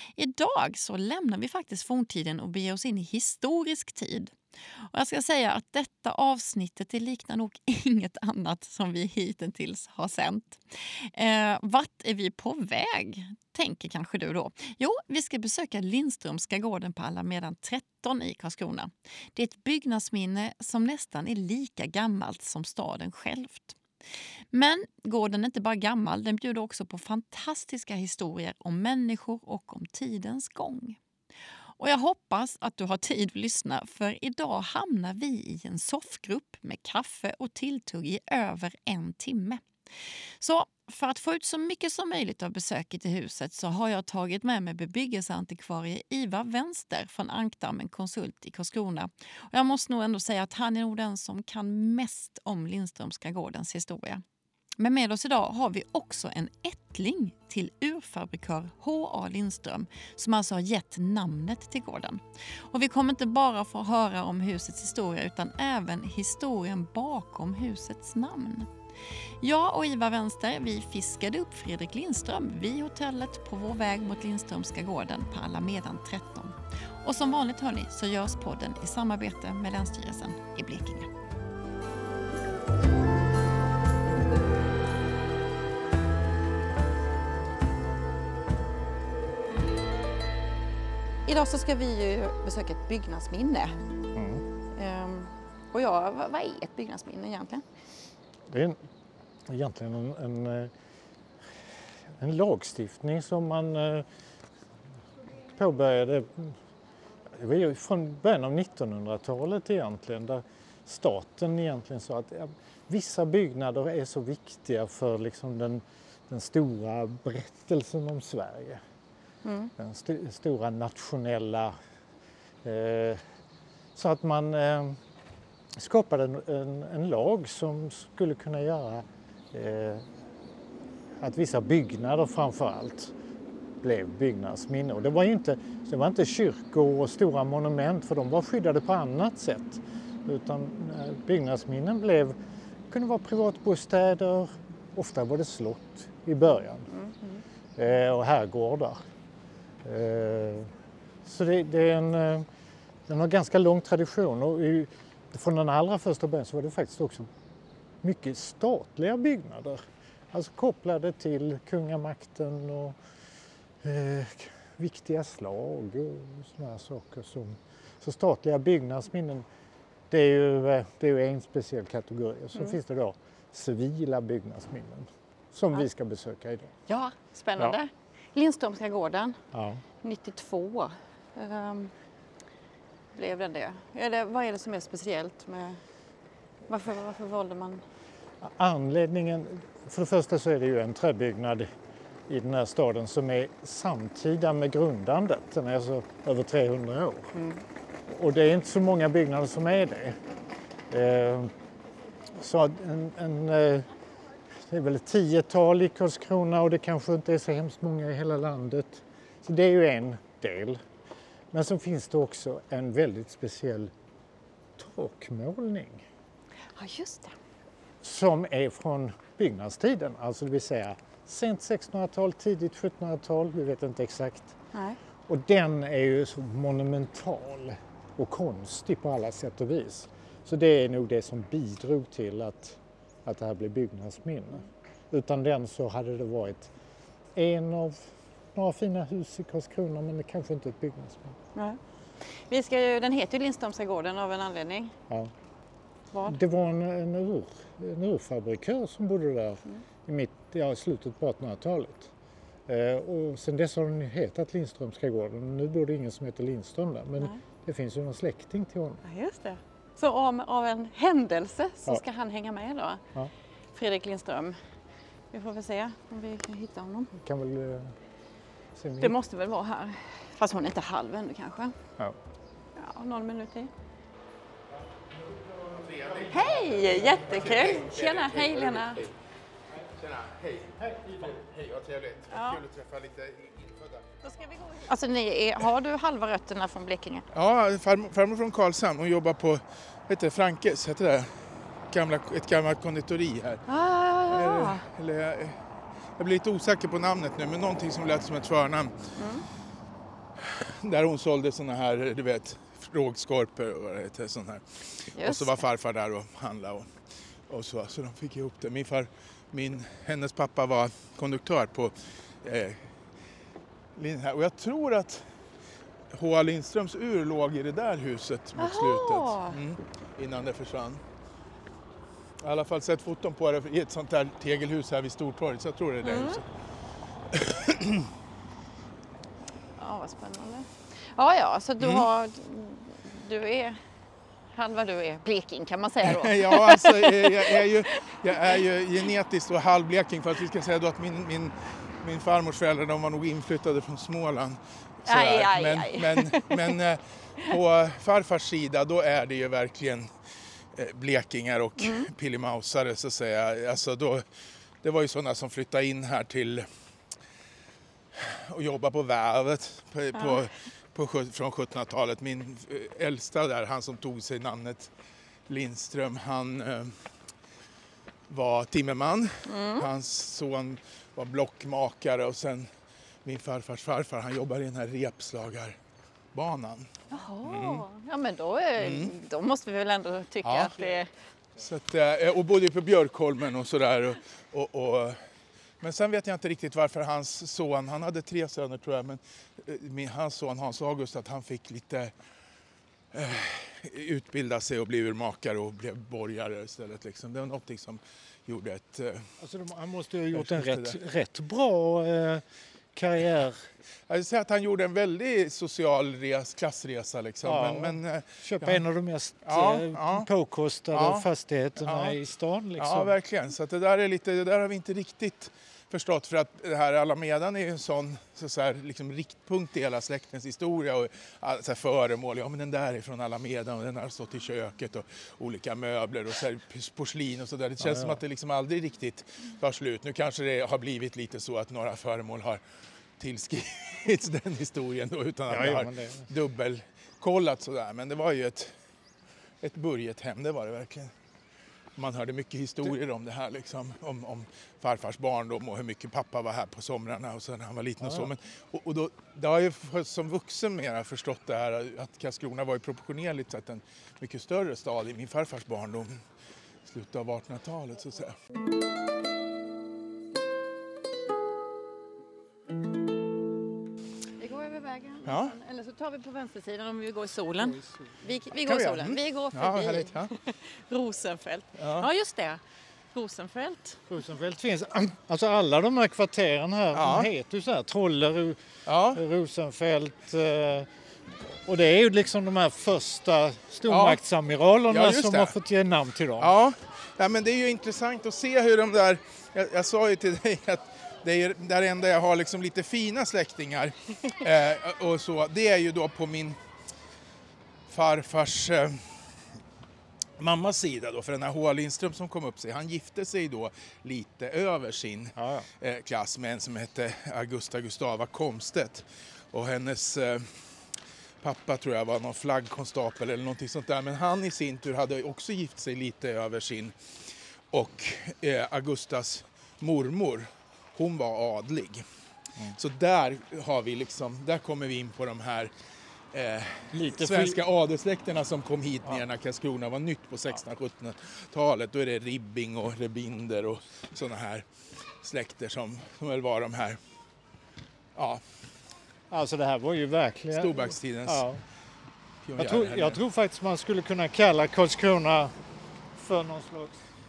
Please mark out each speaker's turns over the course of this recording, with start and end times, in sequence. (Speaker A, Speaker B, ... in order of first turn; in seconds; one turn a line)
Speaker A: 0.1-23.8
Speaker A: 24.5-31.0
Speaker A: 31.8-39.6
Speaker A: 40.4-54.2
Speaker A: 54.8-68.7
Speaker A: 69.4-81.1
Speaker A: 91.2-93.8
Speaker B: 94.1-94.4
Speaker A: 94.7-97.6
Speaker B: 98.5-98.8
Speaker B: 99.5-100.7
Speaker B: 102.0-104.1
Speaker B: 105.4-106.6
Speaker B: 107.3-118.8
Speaker A: 119.4-119.7
Speaker B: 119.8-121.8
Speaker B: 122.6-123.2
Speaker B: 123.9-125.0
Speaker B: 125.8-130.1
Speaker B: 131.2-133.1
Speaker B: 133.8-142.4
Speaker B: 142.9-146.9
Speaker A: 146.9-147.4
Speaker B: 147.8-149.0
Speaker B: 149.8-150.7
Speaker B: 151.2-152.5
Speaker B: 153.1-157.3
Speaker B: 158.0-163.0
Speaker B: 163.8-169.5
Speaker B: 170.1-176.7
Speaker A: 176.9-179.4
Speaker B: 179.5-179.8
Speaker A: 180.0-181.9
Speaker A: 183.1-185.8
Speaker A: 186.7-187.8
Speaker B: 188.4-191.7
Speaker B: 192.3-197.3
Speaker A: 197.3-197.6
Speaker B: 198.1-200.2
Speaker B: 200.9-201.5
Speaker B: 202.3-203.9
Speaker B: 204.6-210.8
Speaker B: 211.5-213.9
Speaker B: 214.8-216.1
Speaker A: 216.8-217.3
Speaker B: 218.0-224.6
Speaker B: 225.3-236.7
Speaker B: 237.3-241.3
Speaker A: 241.6-244.9
Speaker A: 246.1-246.4
Speaker B: 246.2-252.1
Speaker B: 252.7-259.0
Speaker A: 259.0-263.1
Speaker A: 263.7-264.6
Speaker A: 265.3-267.2
Speaker B: 267.2-267.9
Speaker B: 268.8-269.2
Speaker A: 269.0-271.8
Speaker A: 272.8-273.7
Speaker C: 275.8-279.1
Speaker A: 276.3-279.1
Speaker C: 279.9-284.4
Speaker B: 280.9-281.3
Speaker A: 282.3-282.6
Speaker A: 284.6-287.2
Speaker C: 287.3-293.6
Speaker A: 293.7-294.8
Speaker C: 294.3-295.6
Speaker C: 296.2-299.1
Speaker A: 299.2-299.4
Speaker C: 300.4-306.9
Speaker A: 305.1-305.6
Speaker C: 307.5-312.9
Speaker C: 313.9-315.3
Speaker C: 316.1-321.0
Speaker A: 318.6-319.6
Speaker C: 322.4-326.5
Speaker A: 326.0-326.4
Speaker C: 327.3-328.1
Speaker A: 329.8-333.8
Speaker C: 331.8-332.1
Speaker A: 334.5-338.6
Speaker C: 336.0-350.1
Speaker A: 345.1-346.8
Speaker C: 350.7-354.3
Speaker A: 351.8-352.1
Speaker C: 354.8-356.7
Speaker C: 358.1-364.9
Speaker C: 365.5-367.1
Speaker C: 368.3-372.7
Speaker A: 369.4-369.9
Speaker C: 373.2-375.8
Speaker C: 376.3-376.9
Speaker A: 377.1-381.1
Speaker C: 377.4-377.9
Speaker C: 378.8-379.1
Speaker C: 380.4-380.8
Speaker C: 381.6-385.2
Speaker C: 385.8-392.1
Speaker C: 393.1-399.3
Speaker B: 399.4-403.7
Speaker C: 400.3-401.0
Speaker C: 404.1-408.8
Speaker B: 407.4-413.1
Speaker C: 409.4-410.3
Speaker C: 410.9-411.3
Speaker C: 411.8-412.2
Speaker C: 412.8-432.6
Speaker B: 427.8-428.2
Speaker C: 433.2-438.7
Speaker B: 435.5-436.3
Speaker C: 439.6-441.1
Speaker C: 441.9-456.2
Speaker B: 448.0-448.3
Speaker C: 456.9-458.4
Speaker A: 464.4-472.6
Speaker C: 465.2-465.5
Speaker B: 467.6-468.2
Speaker C: 468.5-470.3
Speaker C: 471.8-472.1
Speaker A: 473.1-474.0
Speaker B: 474.1-480.9
Speaker C: 476.9-477.3
Speaker C: 478.9-479.2
Speaker B: 481.7-486.5
Speaker C: 483.9-484.2
Speaker C: 484.9-485.5
Speaker C: 486.4-496.6
Speaker C: 497.9-499.3
Speaker C: 500.4-510.7
Speaker B: 505.4-505.7
Speaker C: 511.4-517.0
Speaker C: 517.7-522.0
Speaker C: 522.8-525.7
Speaker C: 526.3-534.7
Speaker B: 526.9-527.6
Speaker C: 535.2-537.0
Speaker C: 538.1-538.4
Speaker B: 539.3-541.6
Speaker C: 540.5-541.5
Speaker C: 542.5-543.2
Speaker B: 542.6-545.5
Speaker B: 546.1-547.0